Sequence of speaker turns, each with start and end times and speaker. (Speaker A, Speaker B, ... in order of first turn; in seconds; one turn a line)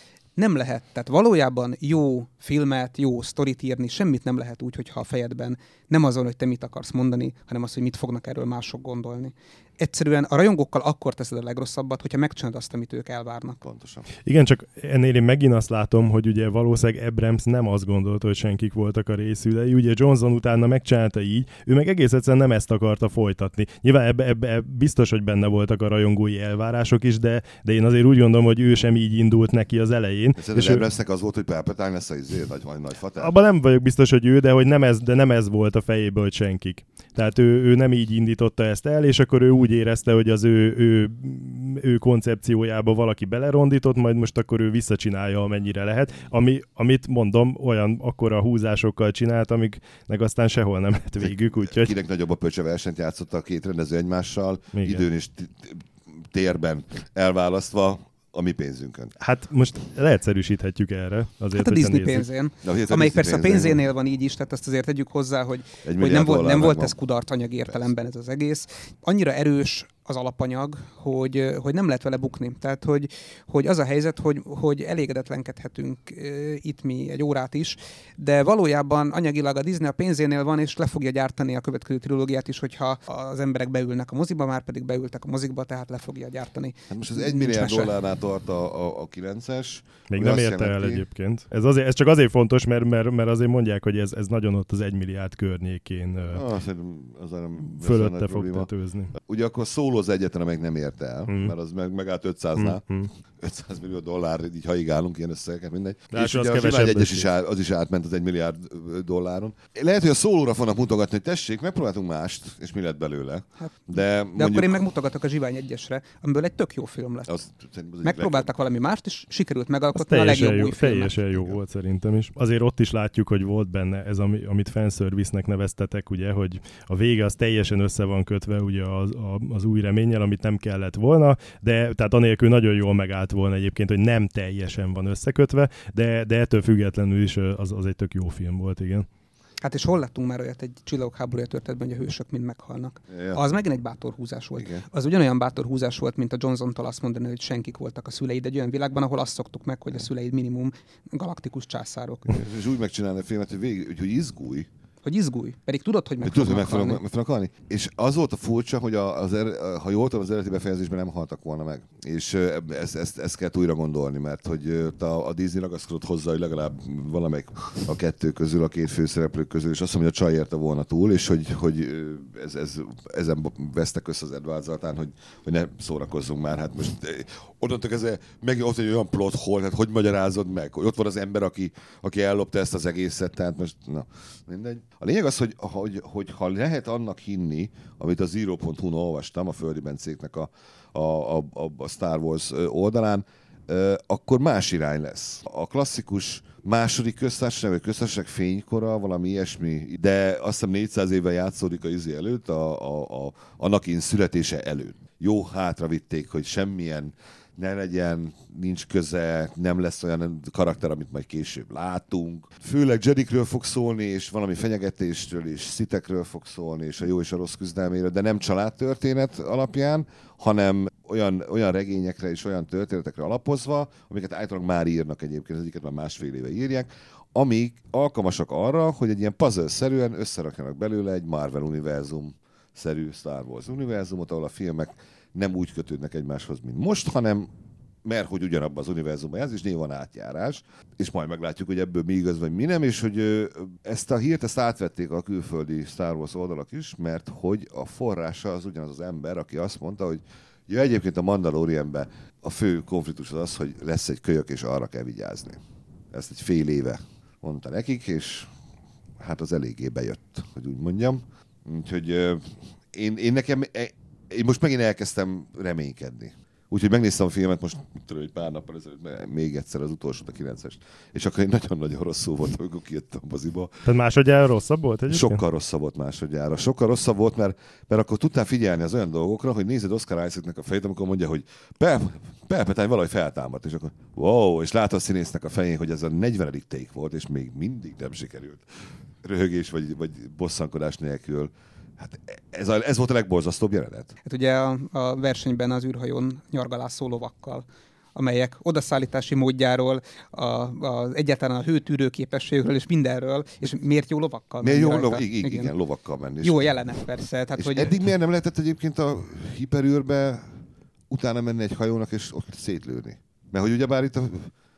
Speaker A: 0.4-13.6
Speaker B: 13.6-14.1
Speaker C: 14.2-30.8
Speaker B: 30.4-33.3
Speaker C: 33.2-51.9
Speaker B: 51.7-59.1
Speaker C: 54.7-55.0
Speaker C: 59.2-62.2
Speaker A: 61.5-87.9
Speaker B: 62.6-63.8
Speaker B: 65.8-67.0
Speaker B: 86.9-91.0
Speaker C: 90.1-96.4
Speaker B: 96.3-98.7
Speaker C: 97.7-99.1
Speaker B: 99.2-102.8
Speaker C: 101.3-101.5
Speaker C: 102.5-103.1
Speaker B: 103.4-114.8
Speaker C: 106.1-107.3
Speaker A: 114.3-117.3
Speaker B: 117.3-118.5
Speaker A: 118.0-121.1
Speaker C: 119.9-139.1
Speaker A: 139.6-152.3
Speaker B: 143.1-143.4
Speaker B: 152.3-154.7
Speaker A: 155.0-157.0
Speaker B: 156.2-237.5
Speaker B: 238.0-255.6
Speaker B: 256.1-258.5
Speaker B: 259.2-273.8
Speaker C: 273.8-275.4
Speaker B: 275.1-288.6
Speaker B: 289.2-294.1
Speaker A: 294.2-297.6
Speaker A: 298.1-305.7
Speaker B: 304.6-306.7
Speaker A: 306.4-308.0
Speaker B: 307.6-310.5
Speaker B: 311.1-314.5